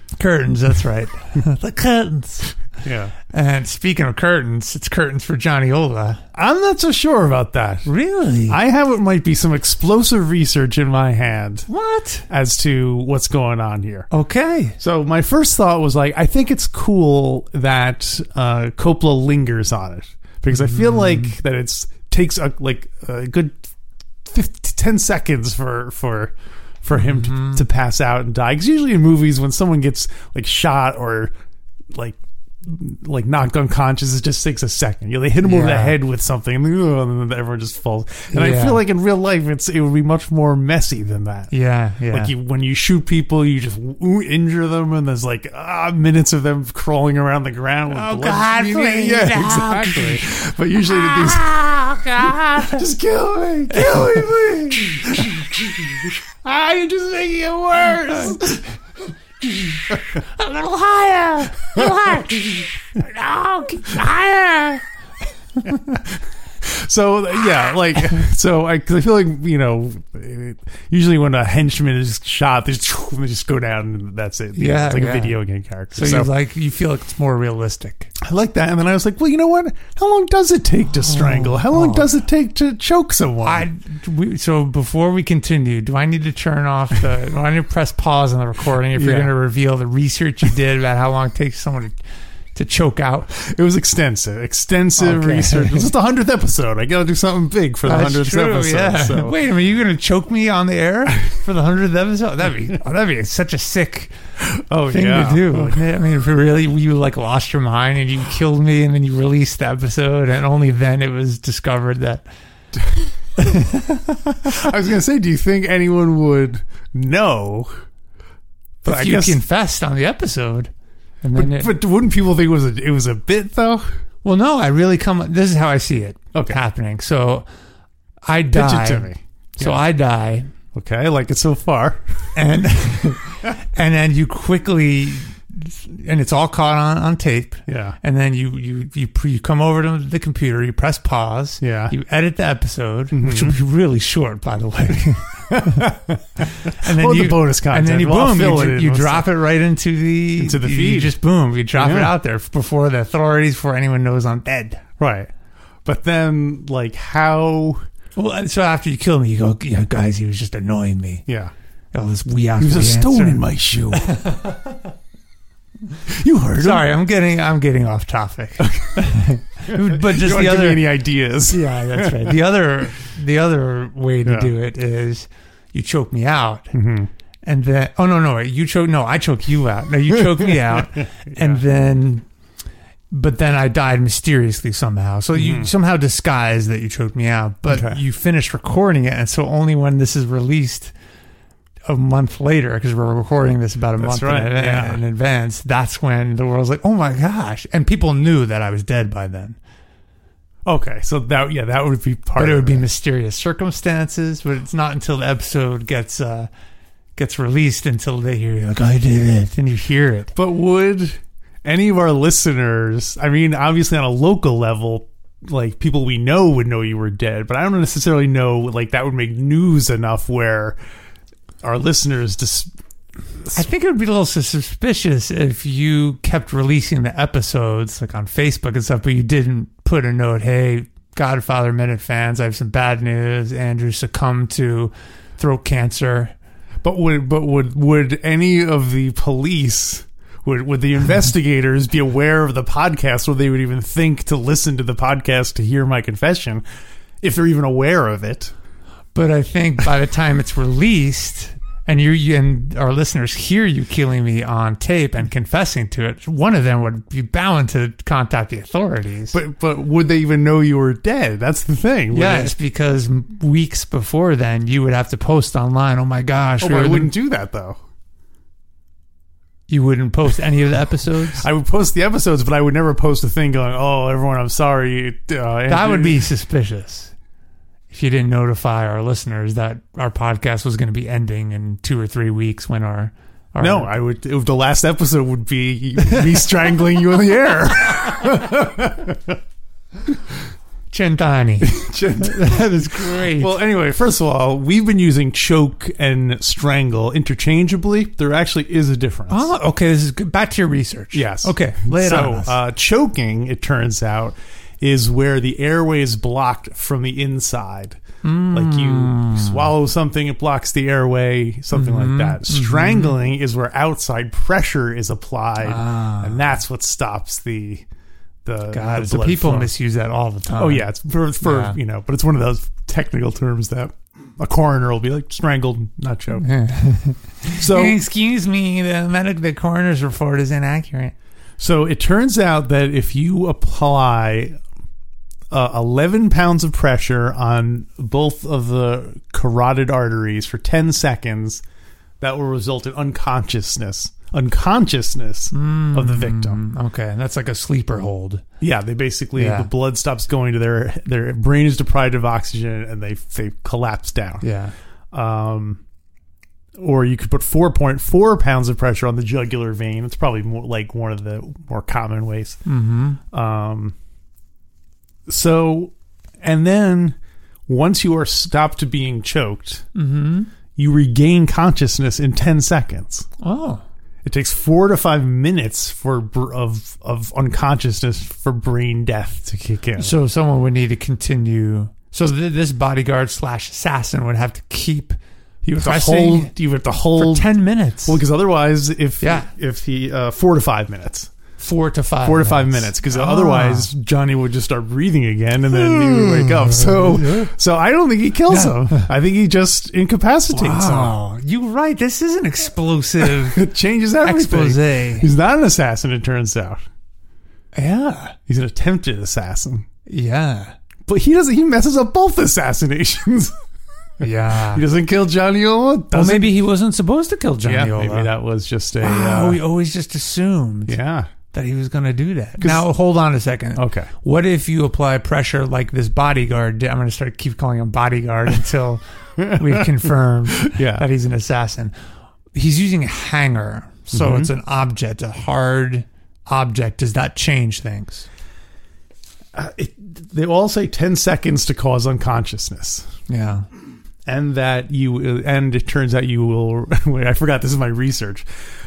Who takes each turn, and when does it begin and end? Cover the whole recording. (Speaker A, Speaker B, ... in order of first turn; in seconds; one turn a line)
Speaker A: 0.2-2.5
Speaker B: 2.8-3.1
Speaker A: 3.3-6.2
Speaker B: 6.3-7.9
Speaker A: 7.8-8.6
Speaker B: 8.5-11.7
Speaker A: 11.7-12.3
Speaker B: 12.3-14.1
Speaker A: 14.1-14.8
Speaker B: 14.8-23.6
Speaker A: 20.5-21.3
Speaker B: 24.2-31.3
Speaker A: 26.9-27.6
Speaker B: 31.9-41.5
Speaker A: 35.4-36.0
Speaker A: 38.3-38.8
Speaker A: 41.5-42.3
Speaker B: 42.1-58.7
Speaker A: 47.9-50.3
Speaker A: 50.8-52.8
Speaker A: 53.7-54.9
Speaker A: 58.1-58.5
Speaker A: 59.8-64.8
Speaker A: 65.6-66.0
Speaker B: 65.7-76.3
Speaker A: 74.5-75.4
Speaker A: 76.0-78.1
Speaker B: 78.2-83.7
Speaker A: 81.0-82.1
Speaker A: 83.4-92.0
Speaker B: 89.0-89.3
Speaker A: 92.5-93.3
Speaker B: 93.3-99.3
Speaker A: 95.0-95.9
Speaker A: 97.8-104.1
Speaker B: 104.4-105.8
Speaker A: 104.9-112.2
Speaker A: 113.4-114.5
Speaker B: 114.4-117.7
Speaker B: 118.8-119.4
Speaker A: 118.8-120.7
Speaker A: 121.2-121.7
Speaker B: 121.3-123.8
Speaker A: 124.2-127.5
Speaker B: 126.3-126.6
Speaker A: 128.2-130.5
Speaker B: 128.5-129.8
Speaker B: 130.7-132.0
Speaker A: 132.3-146.0
Speaker B: 137.7-138.0
Speaker B: 141.6-141.9
Speaker B: 143.1-143.6
Speaker B: 145.5-149.3
Speaker A: 146.5-154.8
Speaker B: 150.4-151.2
Speaker B: 151.8-152.1
Speaker B: 155.0-155.3
Speaker B: 155.8-157.8
Speaker A: 158.2-161.2
Speaker B: 161.3-161.5
Speaker A: 161.9-164.8
Speaker B: 162.6-164.1
Speaker B: 166.1-166.9
Speaker A: 166.6-170.9
Speaker B: 168.6-169.2
Speaker B: 169.7-172.4
Speaker A: 171.5-176.7
Speaker B: 174.2-174.5
Speaker B: 176.7-177.1
Speaker A: 177.4-182.2
Speaker B: 180.2-181.6
Speaker A: 183.1-190.9
Speaker B: 185.3-185.7
Speaker B: 187.7-188.0
Speaker A: 191.9-199.6
Speaker B: 194.0-195.0
Speaker B: 200.7-202.8
Speaker A: 202.4-206.5
Speaker A: 207.2-210.3
Speaker B: 210.3-220.8
Speaker B: 221.6-222.7
Speaker A: 223.5-236.3
Speaker B: 236.8-246.6
Speaker B: 247.2-248.5
Speaker A: 249.1-259.4
Speaker B: 259.3-262.6
Speaker A: 262.1-267.1
Speaker B: 266.6-267.8
Speaker A: 269.7-271.5
Speaker B: 271.3-276.2
Speaker A: 275.7-277.1
Speaker A: 277.9-283.9
Speaker B: 283.6-289.4
Speaker A: 290.9-293.6
Speaker B: 291.6-299.5
Speaker A: 299.3-302.6
Speaker B: 301.1-308.0
Speaker A: 308.2-309.7
Speaker B: 308.5-317.9
Speaker A: 311.7-313.2
Speaker A: 315.6-316.4
Speaker B: 318.4-319.7
Speaker A: 318.7-320.9
Speaker B: 320.5-326.5
Speaker A: 321.4-321.8
Speaker A: 326.4-331.1
Speaker B: 327.5-328.0
Speaker B: 331.6-334.6
Speaker B: 335.5-341.6
Speaker B: 342.2-346.6
Speaker A: 345.5-348.4
Speaker B: 348.6-354.4
Speaker A: 349.4-349.7
Speaker A: 354.4-354.7
Speaker B: 355.1-355.8
Speaker B: 356.8-362.6
Speaker A: 362.7-363.2
Speaker B: 363.3-363.9
Speaker B: 365.3-367.2
Speaker B: 367.7-369.9
Speaker A: 369.9-370.5
Speaker B: 370.8-373.3
Speaker A: 373.4-373.8
Speaker B: 374.2-380.1
Speaker A: 380.0-385.2
Speaker B: 385.6-387.5
Speaker A: 385.8-386.5
Speaker A: 387.2-388.2
Speaker B: 388.0-391.3
Speaker A: 389.2-389.5
Speaker A: 391.6-393.9
Speaker B: 392.2-401.1
Speaker A: 395.7-397.5
Speaker A: 398.5-399.1
Speaker A: 400.5-403.6
Speaker B: 403.2-406.8
Speaker A: 404.2-405.3
Speaker A: 407.8-408.4
Speaker B: 408.5-409.9
Speaker A: 410.1-410.7
Speaker B: 411.1-413.6
Speaker A: 414.2-414.8
Speaker B: 414.5-416.6
Speaker A: 416.1-418.3
Speaker B: 417.6-419.6
Speaker A: 419.0-420.9
Speaker B: 420.9-421.3
Speaker A: 421.5-431.9
Speaker B: 422.6-422.9
Speaker B: 423.8-424.1
Speaker B: 429.4-431.1
Speaker A: 432.6-438.3
Speaker B: 434.1-434.5
Speaker B: 439.5-443.1
Speaker A: 443.3-443.7
Speaker B: 444.3-448.5